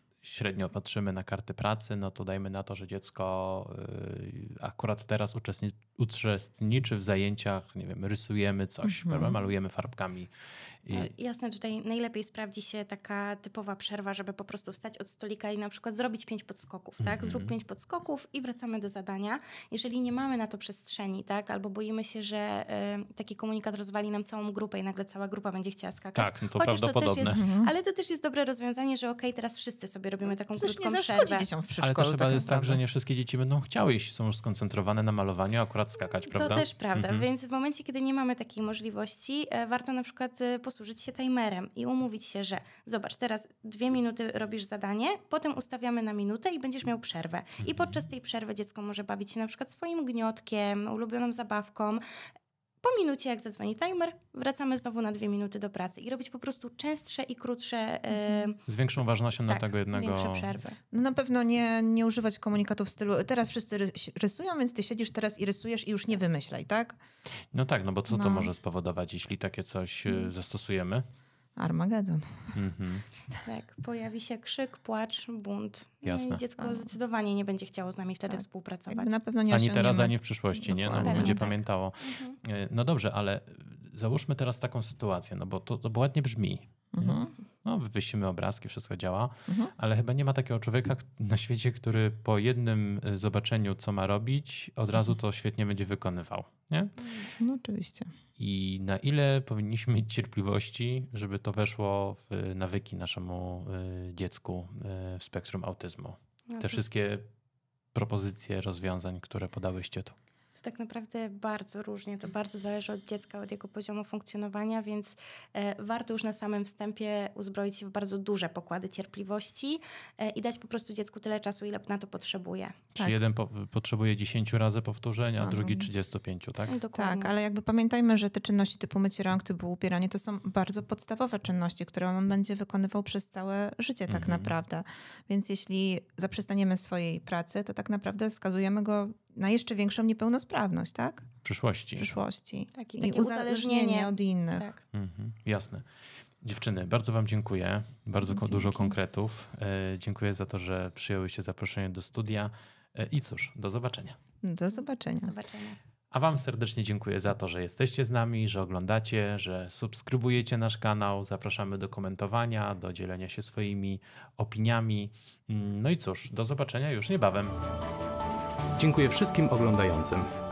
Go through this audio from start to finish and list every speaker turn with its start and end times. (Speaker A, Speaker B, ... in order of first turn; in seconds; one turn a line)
Speaker A: 0.2-10.3
Speaker B: 8.8-9.4
Speaker A: 10.8-11.1
Speaker C: 10.9-31.4
Speaker A: 17.0-17.5
Speaker A: 26.1-27.4
Speaker B: 27.3-27.7
Speaker B: 30.6-32.8
Speaker A: 31.8-37.3
Speaker C: 36.1-52.0
Speaker A: 47.6-48.0
Speaker C: 52.8-58.6
Speaker B: 58.1-58.5
Speaker A: 58.7-60.6
Speaker C: 59.4-60.8
Speaker B: 60.9-67.0
Speaker A: 67.5-71.0
Speaker B: 68.1-68.5
Speaker B: 71.6-72.6
Speaker A: 72.5-73.1
Speaker C: 73.4-79.2
Speaker A: 76.0-76.4
Speaker B: 76.6-76.9
Speaker B: 78.3-81.5
Speaker A: 79.5-96.9
Speaker C: 81.0-82.4
Speaker B: 86.9-87.3
Speaker B: 89.5-89.7
Speaker C: 97.0-97.3
Speaker B: 97.4-98.1
Speaker A: 98.4-107.3
Speaker C: 106.5-106.8
Speaker A: 107.9-110.2
Speaker C: 110.5-122.8
Speaker A: 123.0-126.8
Speaker B: 125.4-125.9
Speaker C: 126.7-127.3
Speaker B: 126.9-141.3
Speaker A: 134.1-134.5
Speaker A: 141.4-142.1
Speaker B: 142.0-144.7
Speaker C: 142.8-144.8
Speaker A: 144.9-145.8
Speaker A: 146.4-154.2
Speaker B: 148.2-149.0
Speaker B: 154.4-155.3
Speaker C: 154.7-155.8
Speaker A: 156.1-167.6
Speaker A: 168.8-170.3